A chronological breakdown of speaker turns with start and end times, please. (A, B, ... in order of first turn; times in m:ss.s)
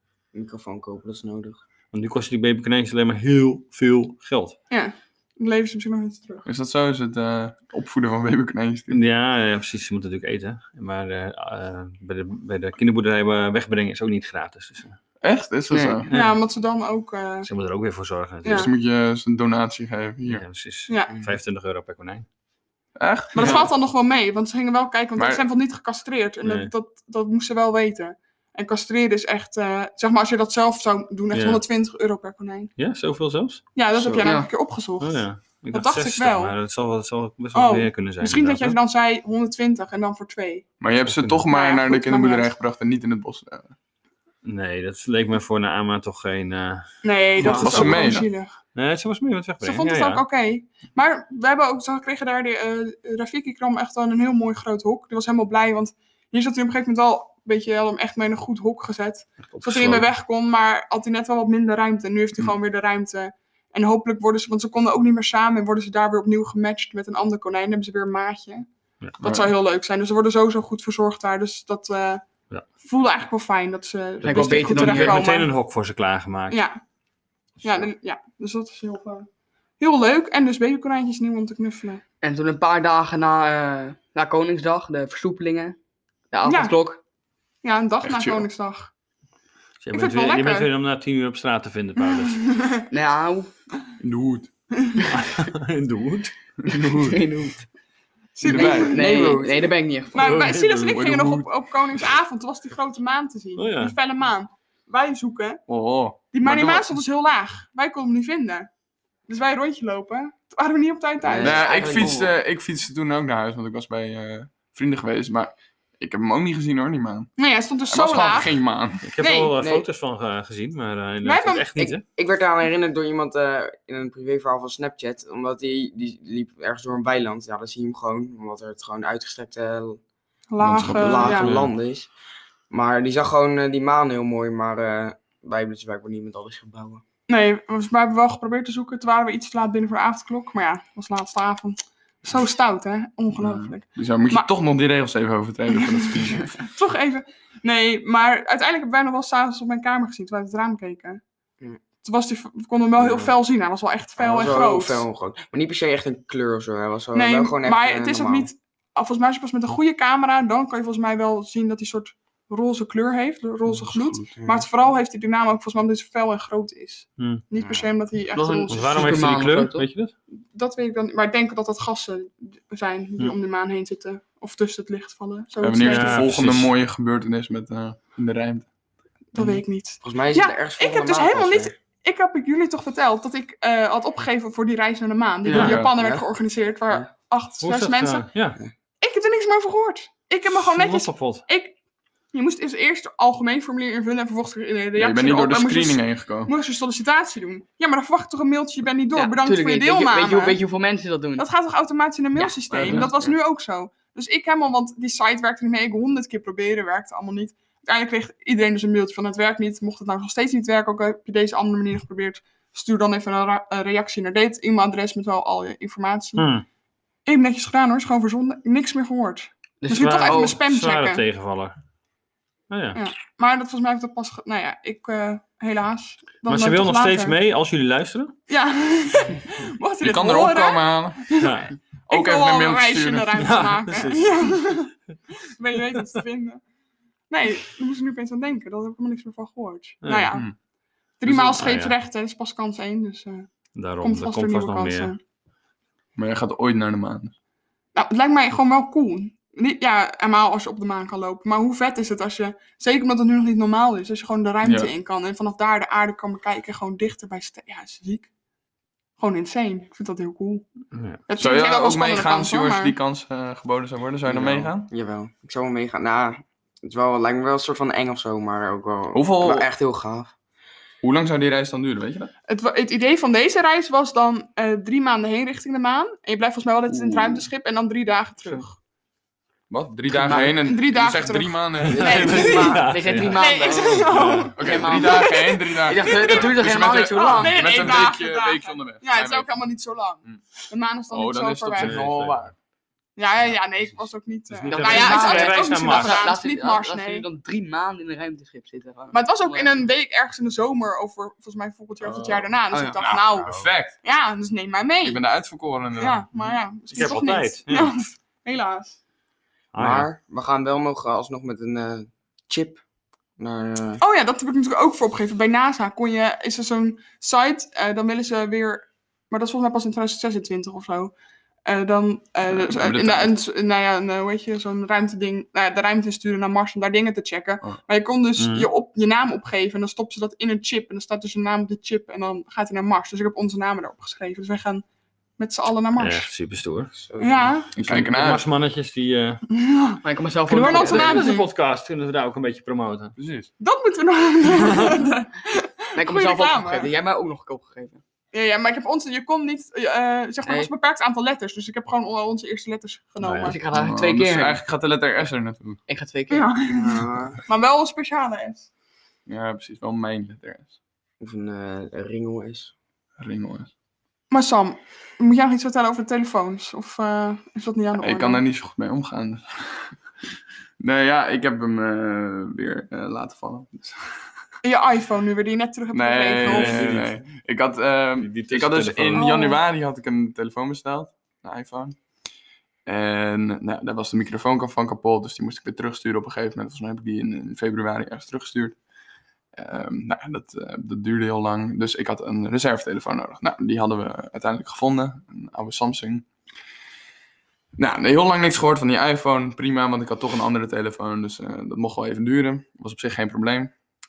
0:00.3-0:01.6 A
0:01.9-0:04.6 B
0:04.7-0:06.4 C
0:06.4-0:09.0 D
0:08.9-0:15.0 B
0:15.2-0:16.1 D
0:15.7-0:16.0 E
0:16.1-0:17.5 C
0:16.1-0:16.4 B
0:17.4-0:18.7 B
0:18.4-0:18.7 C
0:18.4-0:20.4 D
0:20.2-0:22.2 B
0:20.9-0:21.2 C
0:23.0-0:23.7 D
0:23.3-0:32.7 C
0:25.2-0:25.4 D
0:26.4-0:26.7 B
0:31.3-0:31.6 B
0:32.8-0:33.6 B
0:33.7-0:36.5 C
0:34.0-0:34.2 A
0:34.2-0:34.5 E
0:35.0-0:38.8 B
0:37.5-0:40.7 C
0:40.8-0:43.7 D
0:41.0-0:41.4 B
0:41.5-0:42.5 C
0:44.4-0:46.8 B
0:47.0-0:48.5 C
0:47.4-0:48.2 D
0:47.4-0:48.2 B
0:48.7-0:50.2 B
0:49.6-1:08.7 C
0:59.5-1:00.1 B
1:09.2-1:12.2 C
1:09.2-1:09.5 D
1:12.8-1:15.5 C
1:14.2-1:15.2 E
1:14.2-1:16.6 B
1:16.5-1:16.8 C
1:17.6-1:19.3 C
1:19.8-1:22.0 C
1:22.2-1:25.8 E
1:26.3-1:27.0 E
1:26.4-1:26.8 C
1:27.6-1:28.9 C
1:28.0-1:28.5 D
1:29.8-1:32.5 B
1:29.9-1:30.7 C
1:32.2-1:32.8 C
1:32.9-1:33.5 E
1:34.0-1:34.5 D
1:34.8-1:35.0 C
1:35.1-1:36.3 B
1:36.6-1:37.2 D
1:36.8-1:37.7 E
1:38.4-1:39.1 C
1:38.4-1:39.0 D
1:38.5-1:40.3 E
1:38.5-1:39.7 A
1:40.1-1:45.6 C
1:40.1-1:41.0 B
1:40.9-1:41.5 D
1:43.6-1:44.0 B
1:45.7-1:47.0 D
1:46.3-1:48.7 C
1:49.3-1:51.7 C
1:51.2-1:52.1 A
1:51.3-1:52.3 E
1:51.4-1:57.3 D
1:57.4-1:58.6 C
1:57.9-1:59.1 D
1:59.0-2:02.0 B
1:59.2-1:59.5 C
2:01.2-2:01.7 C
2:01.8-2:10.0 A
2:10.5-2:11.5 C
2:10.6-2:11.6 D
2:10.8-2:12.1 A
2:11.3-2:11.7 B
2:12.7-2:17.0 A
2:17.3-2:24.5 C
2:23.4-2:26.6 D
2:25.8-2:31.2 C
2:32.0-2:35.0 C
2:33.0-2:33.3 A
2:34.2-2:38.5 A
2:37.1-2:49.2 C
2:44.3-2:44.6 A
2:48.3-2:49.8 E
2:48.7-2:50.1 B
2:50.5-2:56.4 C
2:55.6-2:58.7 D
2:55.8-2:56.7 B
2:59.3-3:08.3 C
3:00.0-3:01.7 A
3:05.4-3:05.7 E
3:05.5-3:05.8 B
3:05.5-3:05.9 D
3:06.0-3:06.2 A
3:07.6-3:08.6 B
3:09.0-3:11.7 C
3:10.5-3:11.4 B
3:12.3-3:20.6 C
3:15.0-3:16.5 D
3:19.1-3:21.5 E
3:21.4-3:36.5 C
3:22.4-3:23.1 E
3:22.7-3:23.1 D
3:36.4-3:36.6 B
3:37.2-3:41.2 C
3:39.8-3:40.6 E
3:39.9-3:41.7 B
3:42.7-3:43.0 B
3:42.9-3:47.4 C
3:46.4-3:48.3 B
3:48.5-3:54.9 C
3:50.0-3:51.2 D
3:51.4-3:51.7 B
3:52.1-3:53.4 D
3:53.4-3:54.7 B
3:55.5-3:56.6 C
3:57.3-4:00.5 C
4:00.0-4:00.4 B
4:01.2-4:03.5 C
4:01.2-4:01.9 B
4:03.7-4:05.1 B
4:04.0-4:05.2 C
4:06.2-4:07.3 D
4:07.9-4:18.3 C
4:14.6-4:14.9 D
4:19.2-4:20.6 C
4:20.9-4:21.2 B
4:21.3-4:22.9 C
4:21.4-4:24.9 D
4:24.2-4:30.3 A
4:29.1-4:29.7 D
4:31.0-4:32.3 D
4:32.5-4:38.8 C
4:36.9-4:37.4 D
4:39.7-4:42.5 D
4:40.1-4:40.6 E
4:40.4-4:52.1 C
4:41.8-4:44.5 B
4:41.9-4:42.8 A
4:42.2-4:47.9 E
4:44.5-4:49.6 D
4:51.1-4:52.5 D
4:51.8-4:52.5 B
4:53.2-4:57.2 C
4:54.5-4:56.3 B
4:54.7-4:59.8 E
4:59.1-5:05.2 C
5:02.0-5:04.0 D
5:02.7-5:03.0 E
5:05.0-5:06.6 D
5:06.0-5:09.0 C
5:06.9-5:08.0 B
5:09.7-5:10.1 B
5:09.8-5:12.8 A
5:13.4-5:14.0 A
5:14.0-5:21.1 C
5:21.6-5:34.8 C
5:22.5-5:23.3 D
5:28.4-5:28.7 B
5:35.4-5:36.3 C
5:36.0-5:36.9 B
5:37.0-5:37.5 A
5:37.2-5:37.7 C
5:37.7-5:38.4 D
5:37.8-5:39.4 B
5:39.5-5:41.5 C
5:40.0-5:41.3 E
5:40.6-5:43.2 B
5:43.2-5:43.5 D
5:43.6-5:46.9 C
5:44.7-5:44.9 B
5:45.9-5:48.0 E
5:48.3-5:53.6 C
5:50.4-5:50.7 E
5:53.2-5:53.6 B
5:53.4-5:54.6 E
5:53.7-5:55.8 D
5:55.9-5:56.5 E
5:56.3-5:58.7 C
5:56.7-5:57.4 A
5:59.3-6:00.7 D
6:01.2-6:02.7 A
6:03.2-6:03.7 D
6:04.3-6:08.4 C
6:08.0-6:09.9 D
6:10.8-6:14.1 D
6:14.6-6:17.0 C
6:15.9-6:22.0 D
6:16.4-6:17.2 B
6:18.2-6:19.3 B
6:19.1-6:19.6 C
6:22.8-6:28.8 D
6:29.6-6:36.2 D
6:37.8-6:43.7 D